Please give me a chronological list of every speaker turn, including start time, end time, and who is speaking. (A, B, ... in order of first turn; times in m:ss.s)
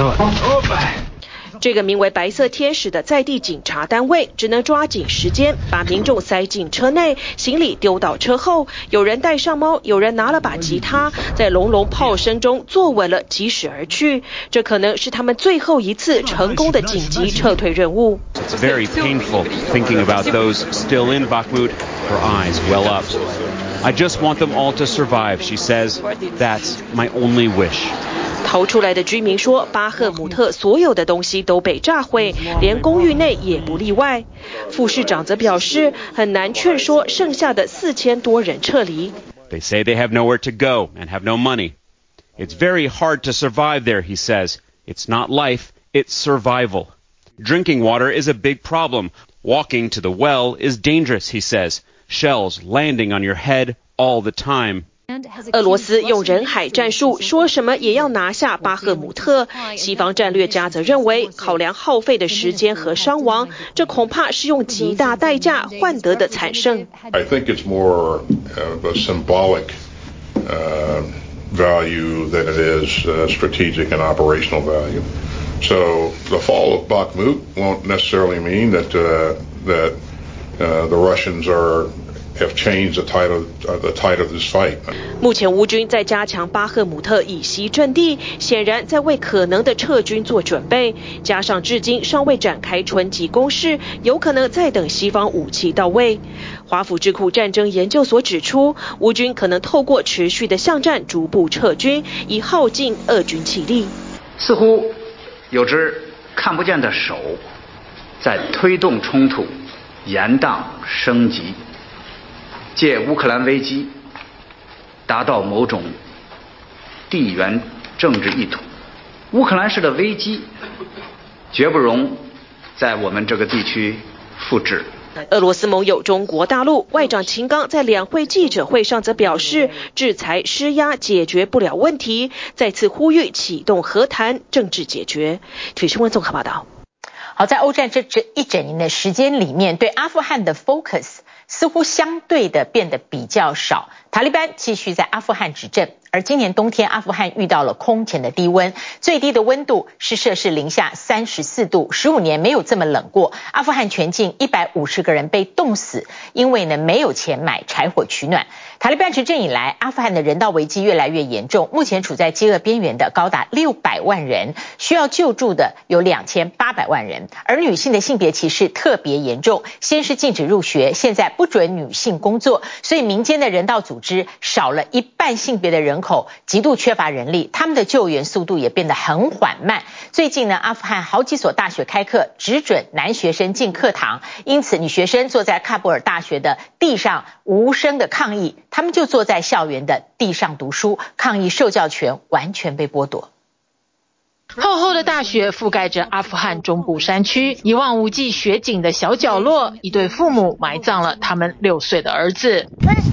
0:01.6-0:18.2 A
0:18.4-0:23.2 B
0:23.8-0:27.9 B
0:28.4-0:39.2 A
0:39.5-0:41.8 B
0:42.4-0:54.9 B
0:55.5-1:06.9 A
1:07.1-1:09.8 C
1:10.4-1:15.1 C
1:15.6-1:20.0 C
1:20.6-1:24.9 C
1:25.2-1:43.9 A
1:44.4-1:45.0 D
1:45.5-1:47.4 D
1:48.2-1:49.5 D
1:50.1-1:51.6 D
1:52.8-1:53.9 D
1:55.1-1:56.0 D
1:57.1-1:58.6 D
1:59.3-2:00.5 D
2:01.5-2:02.2 D
2:02.8-2:04.9 D
2:05.3-2:16.6 A
2:17.4-3:13.3 E
3:14.6-3:22.7 F